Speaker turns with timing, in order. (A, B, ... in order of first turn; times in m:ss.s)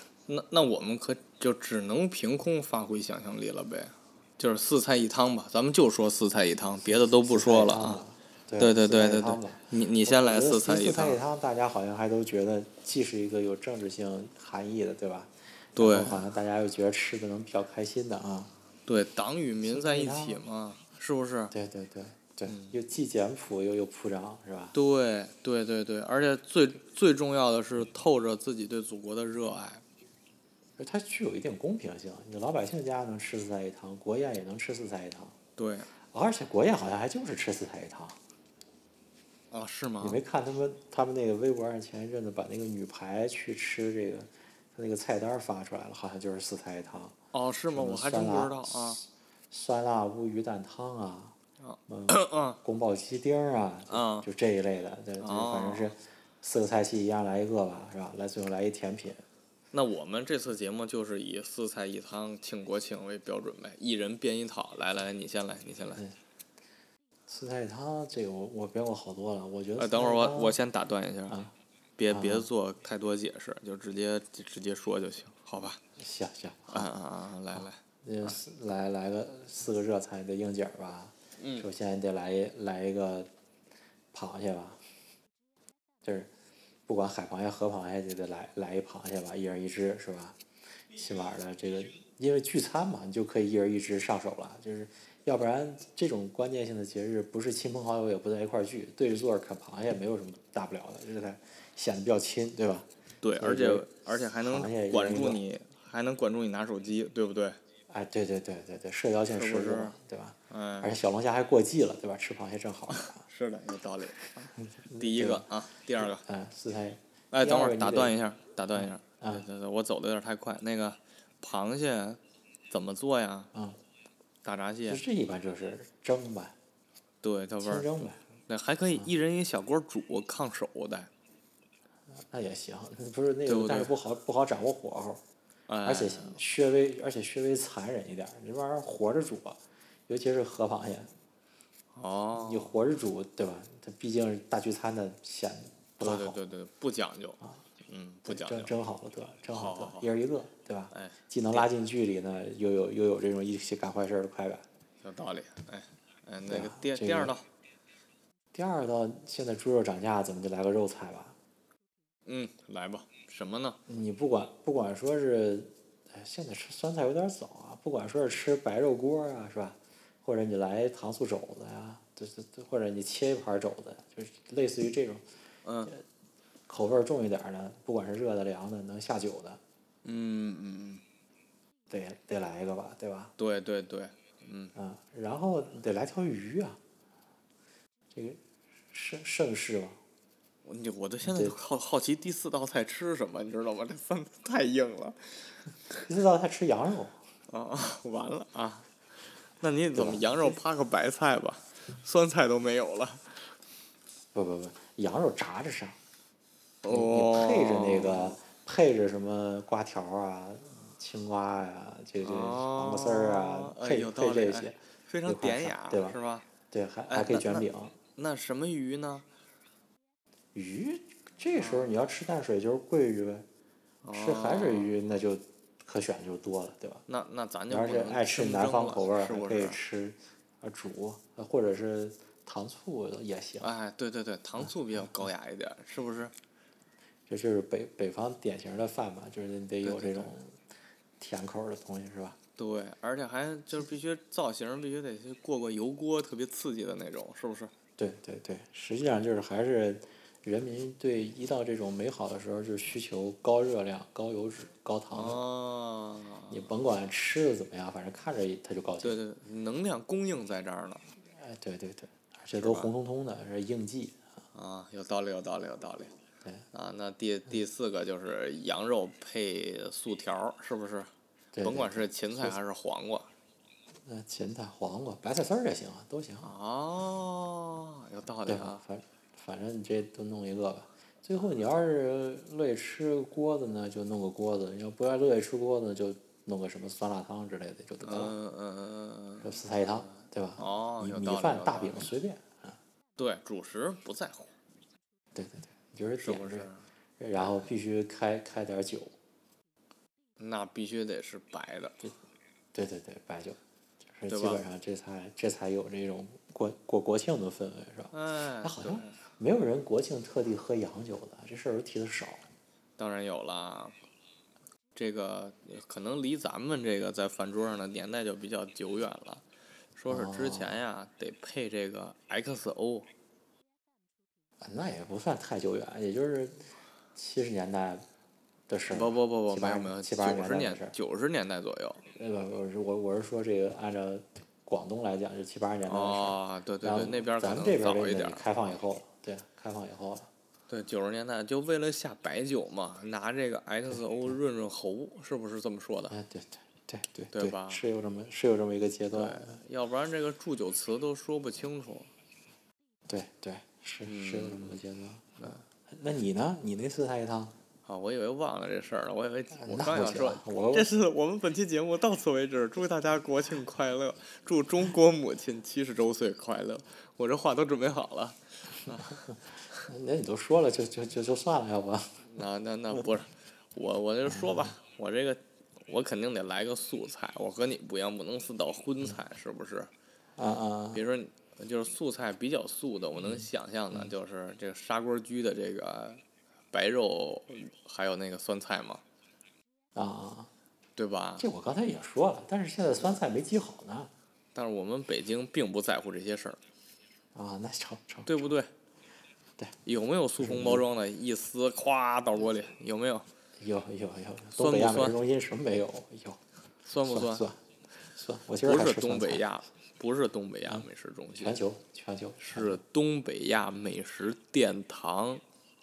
0:00.3-0:08.0 A
0:06.8-0:18.5 B
0:08.6-0:11.2 A
0:15.8-0:16.2 A
0:18.9-0:21.5 A
0:19.6-0:20.4 B
0:21.5-0:24.8 B
0:22.5-0:22.8 A
0:24.7-0:29.8 A
0:30.8-0:35.4 B
0:35.6-0:35.9 A
0:36.1-0:38.2 B
0:39.5-0:40.2 A
0:40.0-0:47.2 B
0:47.3-0:49.0 A
0:47.7-0:51.4 B
0:51.6-0:52.6 A
0:51.9-0:59.2 B
0:53.9-0:54.3 A
0:55.2-0:55.9 A
0:59.7-1:06.0 A
1:07.3-1:10.6 B
1:09.8-1:11.4 A
1:12.0-1:15.8 A
1:12.1-1:12.5 B
1:16.0-1:16.9 B
1:16.7-1:18.4 A
1:17.5-1:23.3 B
1:21.4-1:21.7 A
1:24.1-1:24.8 B
1:26.0-1:26.3 B
1:26.9-1:30.4 B
1:30.9-1:45.4 B
1:43.2-1:47.6 A
1:47.9-1:53.2 B
1:49.3-1:50.0 A
1:50.5-1:50.9 A
1:52.9-1:56.2 A
1:54.8-1:58.2 B
1:57.3-2:03.5 A
1:58.8-1:59.5 B
2:03.5-2:03.8 B
2:04.4-2:05.0 A
2:04.9-2:06.6 B
2:07.2-2:11.1 A
2:07.6-2:08.2 B
2:12.2-2:15.2 B
2:13.5-2:13.9 A
2:15.7-2:16.4 A
2:15.8-2:21.1 B
2:21.9-2:22.7 A
2:22.3-2:26.4 B
2:26.0-2:28.7 A
2:28.3-2:34.6 B
2:29.5-2:30.1 A
2:30.9-2:31.7 A
2:35.0-2:37.5 A
2:36.5-2:37.4 B
2:38.5-2:41.4 B
2:42.3-2:43.8 A
2:43.9-2:55.2 B
2:55.6-2:55.9 A
2:56.7-2:59.6 B
3:00.0-3:01.0 A
3:01.9-3:03.3 B
3:03.4-3:04.7 A
3:04.8-3:06.8 B
3:08.1-3:10.0 B
3:10.6-3:15.6 A
3:11.2-3:11.6 B
3:15.9-3:17.2 B
3:17.5-3:18.9 A
3:19.6-3:23.4 A
3:19.9-3:20.6 B
3:24.3-3:26.0 B
3:26.8-3:28.4 A
3:26.9-3:36.2 B
3:32.2-3:36.5 A
3:36.7-3:38.0 B
3:37.1-3:39.2 A
3:40.5-3:43.5 B
3:41.6-3:41.9 A
3:44.0-3:45.0 A
3:44.1-3:47.0 B
3:47.1-3:49.8 A
3:47.7-3:53.7 B
3:53.6-3:56.3 A
3:57.3-4:00.6 B
3:59.8-4:00.3 A
4:01.2-4:02.4 B
4:02.6-4:07.7 A
4:08.0-4:15.4 B
4:15.1-4:16.7 A
4:16.5-4:19.2 B
4:19.0-4:21.0 A
4:21.4-4:24.2 B
4:22.6-4:22.9 A
4:24.5-4:26.1 A
4:26.7-4:31.1 A
4:31.5-4:32.6 B
4:31.6-4:33.3 A
4:34.1-4:36.5 B
4:36.4-4:38.8 A
4:38.5-4:48.4 B
4:48.0-4:49.6 A
4:49.4-4:52.8 B
4:50.1-4:52.1 A
4:53.2-4:54.6 A
4:55.4-4:59.1 B
4:56.2-4:56.8 A
5:00.4-5:02.0 A
5:02.7-5:03.6 B
5:04.1-5:12.4 B
5:04.3-5:04.6 A
5:08.1-5:09.2 A
5:13.0-5:14.0 A
5:15.0-5:19.4 A
5:20.0-5:23.1 A
5:20.1-5:20.8 B
5:24.6-5:28.0 B
5:28.7-5:31.0 B
5:28.9-5:32.0 A
5:32.1-5:40.3 B
5:35.9-5:38.5 A
5:40.7-5:46.2 A
5:46.1-5:49.6 B
5:47.3-5:47.8 A
5:49.1-5:52.1 A
5:53.1-5:57.6 B
5:54.0-5:54.8 A
5:57.9-6:09.2 A
5:59.5-6:00.9 B
6:09.8-6:12.3 B
6:12.3-6:19.9 A
6:20.4-6:21.0 B
6:20.9-6:29.0 A
6:30.0-6:30.5 B
6:31.0-6:31.5 A
6:31.4-6:34.1 B
6:34.6-6:36.6 A
6:37.4-6:38.5 B
6:38.3-6:38.7 A
6:39.8-6:43.3 A
6:40.4-6:40.9 B
6:43.6-6:46.4 B
6:44.6-6:45.2 A
6:46.8-6:47.5 A
6:47.0-6:47.6 B
6:48.1-6:49.5 B
6:48.6-6:51.6 A
6:50.7-6:52.8 B
6:52.4-6:55.4 A